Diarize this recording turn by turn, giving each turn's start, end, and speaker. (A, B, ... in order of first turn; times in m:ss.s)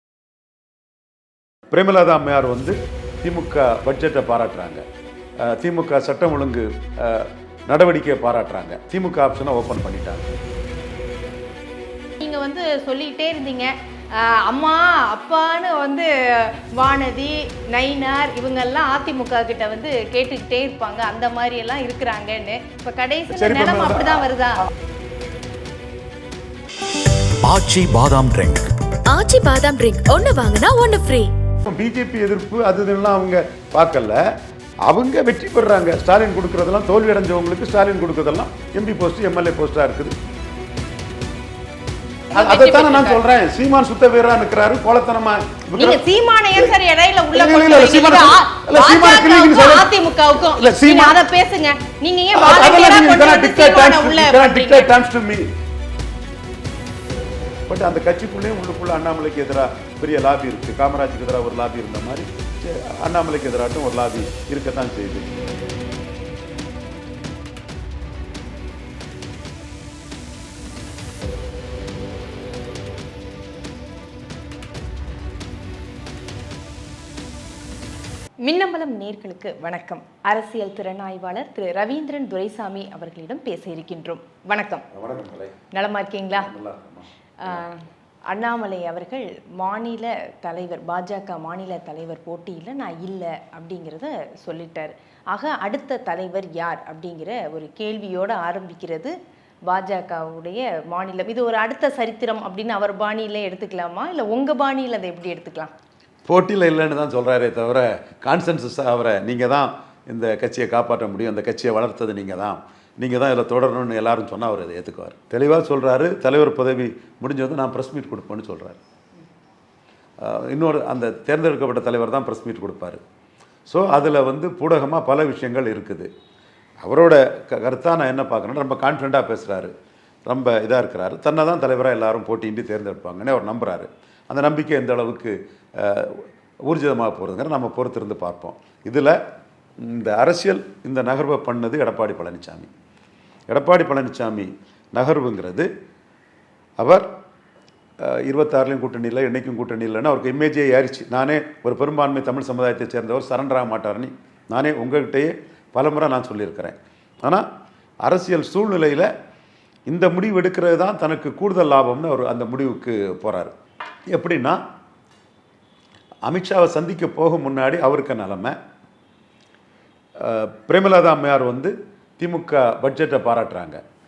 0:01.7-0:04.8 A
0:05.4-0:10.3 A
0:12.2-0:24.6 B
0:23.3-0:24.3 A
0:27.4-0:28.6 A
0:29.1-0:31.3 C
0:31.6-0:34.2 A
0:34.8-0:40.1 A
0:42.3-0:43.2 B
0:42.3-0:46.0 A
0:45.8-0:54.9 B
0:47.3-0:51.2 A
0:52.3-0:55.5 A
0:57.7-1:05.3 A
1:18.4-1:24.8 B
1:24.9-1:25.5 A
1:25.7-1:26.5 B
1:26.3-1:27.6 A
1:27.4-1:39.1 B
1:39.7-1:45.7 B
1:46.3-1:58.8 A
2:00.2-2:03.0 A
2:03.7-2:06.1 A
2:06.8-2:09.7 A
2:10.3-2:19.2 A
2:19.8-2:22.7 A
2:23.5-2:25.7 A
2:26.8-2:27.0 A
2:28.0-2:37.4 A
2:38.0-2:39.1 A
2:39.9-2:43.5 A
2:44.1-2:44.6 A
2:46.2-2:48.5 A
2:50.2-2:53.8 A